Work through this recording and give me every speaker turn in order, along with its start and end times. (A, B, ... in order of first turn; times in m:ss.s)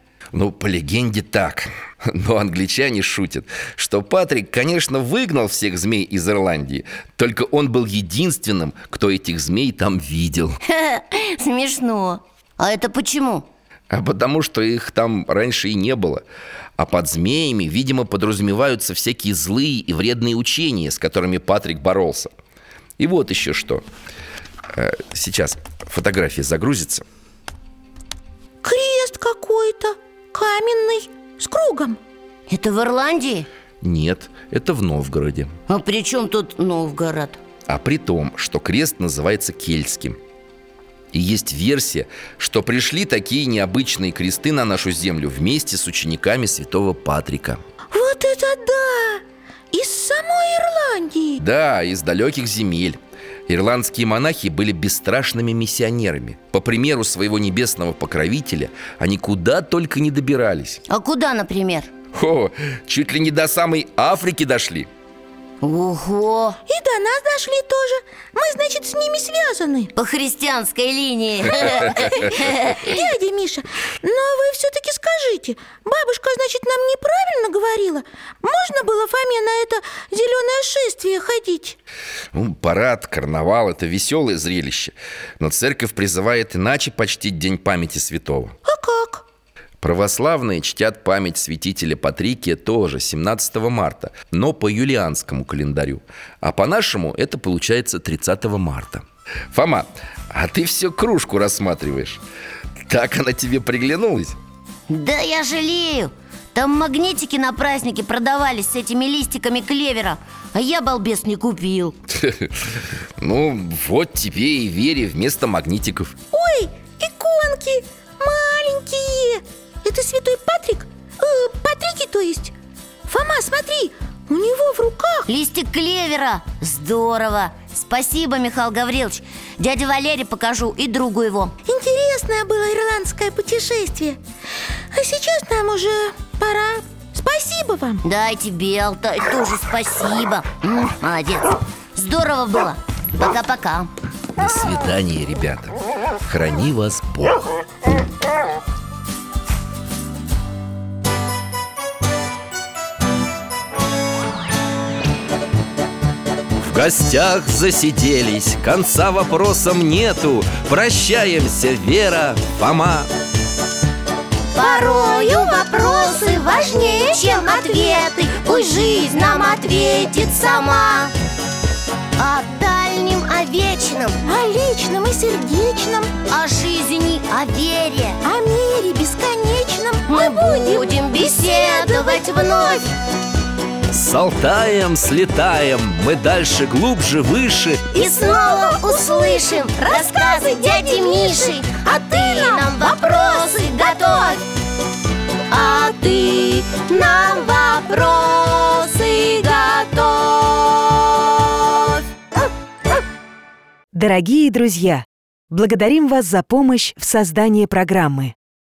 0:00.3-0:10.6 A
0:10.6-0:13.5 B
0:13.9-0:16.2 A
0:16.8-0:22.3 A
0:23.0-0:23.8 A
0:24.7-0:27.0 A
0:28.6-0:32.0 C
0:32.5-0:33.5 B
0:33.8-0:35.5 A
0:35.7-0:37.4 B
0:37.7-0:40.2 A
0:41.1-0:47.6 A
0:47.9-0:51.4 C
0:51.4-1:00.8 A
1:00.9-1:01.9 B
1:02.1-1:04.9 A
1:05.6-1:06.6 B
1:06.7-1:09.9 C
1:10.0-1:12.9 B
1:11.6-1:12.2 C
1:12.7-1:21.8 C
1:22.3-1:28.6 A
1:28.6-1:29.2 C
1:29.8-1:42.2 A
1:42.8-1:44.4 A
1:44.9-1:52.0 B
1:52.1-1:56.1 A
1:56.3-2:02.5 C
2:03.1-2:05.3 C
2:05.3-2:11.5 B
2:11.6-2:14.2 C
2:14.9-2:18.0 C
2:18.0-2:23.9 B
2:24.4-2:28.0 A
2:36.6-2:43.1 A
2:44.5-2:51.1 B
2:44.6-2:49.2 C
2:52.2-2:54.2 B
2:54.2-2:56.1 C
2:56.3-2:58.2 B
2:58.2-3:02.8 C
3:00.1-3:02.9 B
3:03.9-3:07.8 A
3:07.9-3:14.4 C
3:07.9-3:14.4 B
3:15.5-3:22.0 B
3:23.9-3:28.3 D